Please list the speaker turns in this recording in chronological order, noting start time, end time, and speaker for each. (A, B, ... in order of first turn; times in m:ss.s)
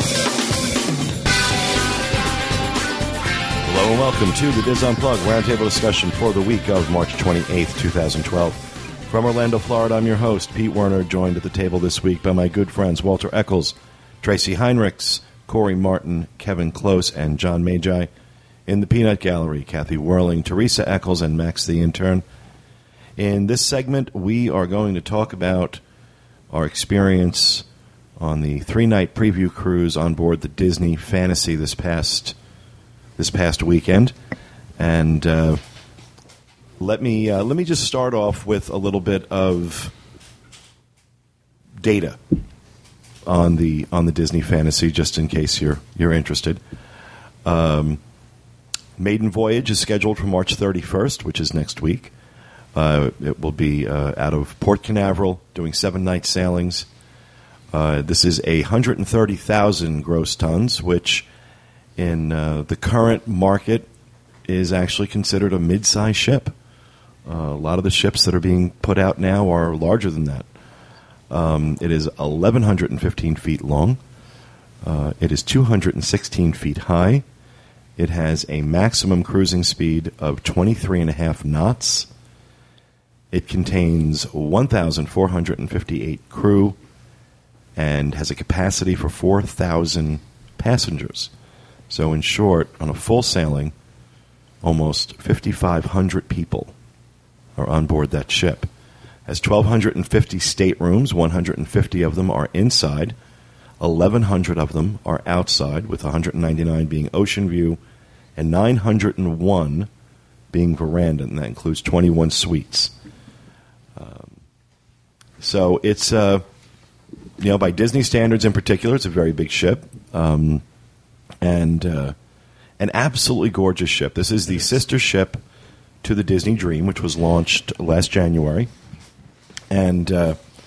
0:03.6-0:18.1 A
0:18.7-0:22.2 A
0:23.2-0:25.8 A
0:26.5-0:27.6 A
0:28.2-0:32.4 A
0:33.2-0:34.1 A
0:34.8-0:35.6 A
0:36.8-0:39.9 A
0:41.8-0:42.2 A
0:43.3-0:46.6 A
0:47.4-0:48.0 A
0:49.0-0:52.1 A
0:52.8-0:56.9 A
0:57.7-1:01.3 A
1:02.0-1:03.9 A
1:04.5-1:06.5 A
1:07.3-1:10.4 A
1:11.3-1:14.0 A
1:14.8-1:17.2 A
1:18.0-1:22.1 A
1:23.3-1:26.8 A
1:27.8-1:31.3 A
1:31.9-1:33.7 A
1:34.6-1:36.7 A
1:37.6-1:38.7 A
1:39.3-1:43.2 A
1:43.8-1:47.8 A
1:48.4-1:49.9 A
1:50.5-1:52.9 A
1:54.0-1:54.3 A
1:55.4-1:56.4 A
1:57.4-2:00.6 A
2:01.4-2:02.2 A
2:02.8-2:05.4 A
2:06.0-2:08.7 A
2:09.7-2:10.4 A